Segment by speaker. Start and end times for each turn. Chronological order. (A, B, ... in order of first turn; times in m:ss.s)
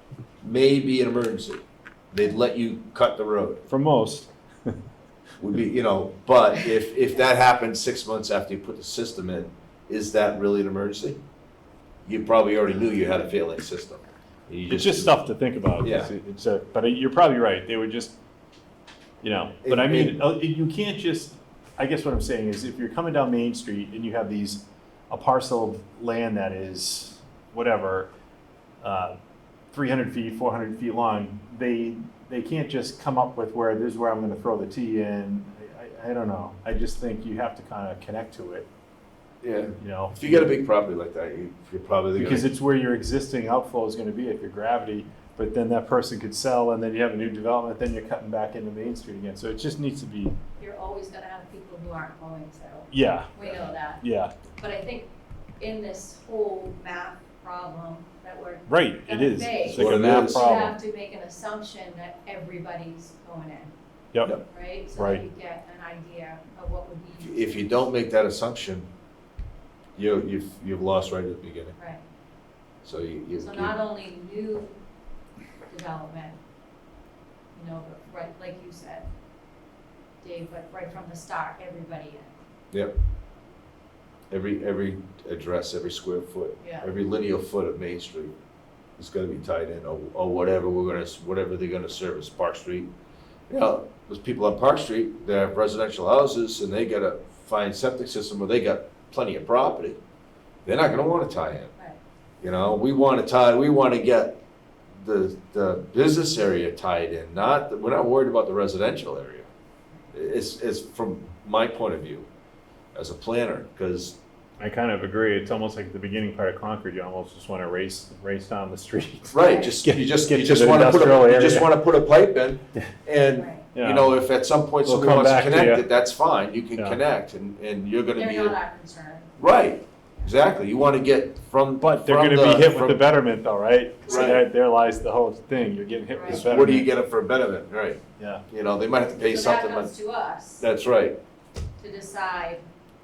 0:00.4-0:01.6 A
0:02.1-0:03.6 A
0:03.7-0:04.8 B
0:05.4-0:11.2 A
0:12.1-0:15.2 A
0:14.7-0:18.2 B
0:15.8-0:16.1 A
0:19.2-0:28.1 B
0:19.6-0:20.2 A
0:28.8-0:29.2 B
0:29.7-0:38.7 B
0:39.4-0:42.5 A
0:39.8-0:40.5 B
0:42.2-0:50.4 B
0:50.6-0:54.0 C
0:52.9-0:53.5 B
0:54.0-0:54.4 B
0:54.6-1:03.7 C
0:58.7-1:00.8 B
0:59.6-1:00.5 A
1:04.4-1:07.7 C
1:04.9-1:05.2 B
1:07.2-1:08.9 A
1:10.0-1:11.8 A
1:12.8-1:13.7 A
1:13.4-1:14.7 C
1:15.7-1:16.4 C
1:17.6-1:19.1 C
1:20.2-1:22.4 C
1:24.3-1:28.3 A
1:26.6-1:26.9 C
1:29.0-1:32.9 A
1:33.5-1:40.0 A
1:40.6-1:41.7 A
1:42.4-1:44.4 A
1:45.0-1:49.5 A
1:50.1-1:52.3 A
1:53.0-1:54.2 A
1:54.6-2:01.7 B
1:59.3-2:08.6 A
1:59.4-1:59.7 C
2:03.3-2:03.7 C
2:03.7-2:04.2 B
2:04.8-2:05.9 B
2:06.8-2:07.0 B
2:08.2-2:09.3 C
2:09.4-2:13.1 A
2:11.8-2:16.9 B
2:14.1-2:14.4 A
2:16.1-2:16.5 C
2:16.3-2:18.0 A
2:18.2-2:18.4 B
2:18.5-2:20.0 A
2:19.2-2:20.7 C
2:20.6-2:21.2 A
2:21.8-2:22.6 C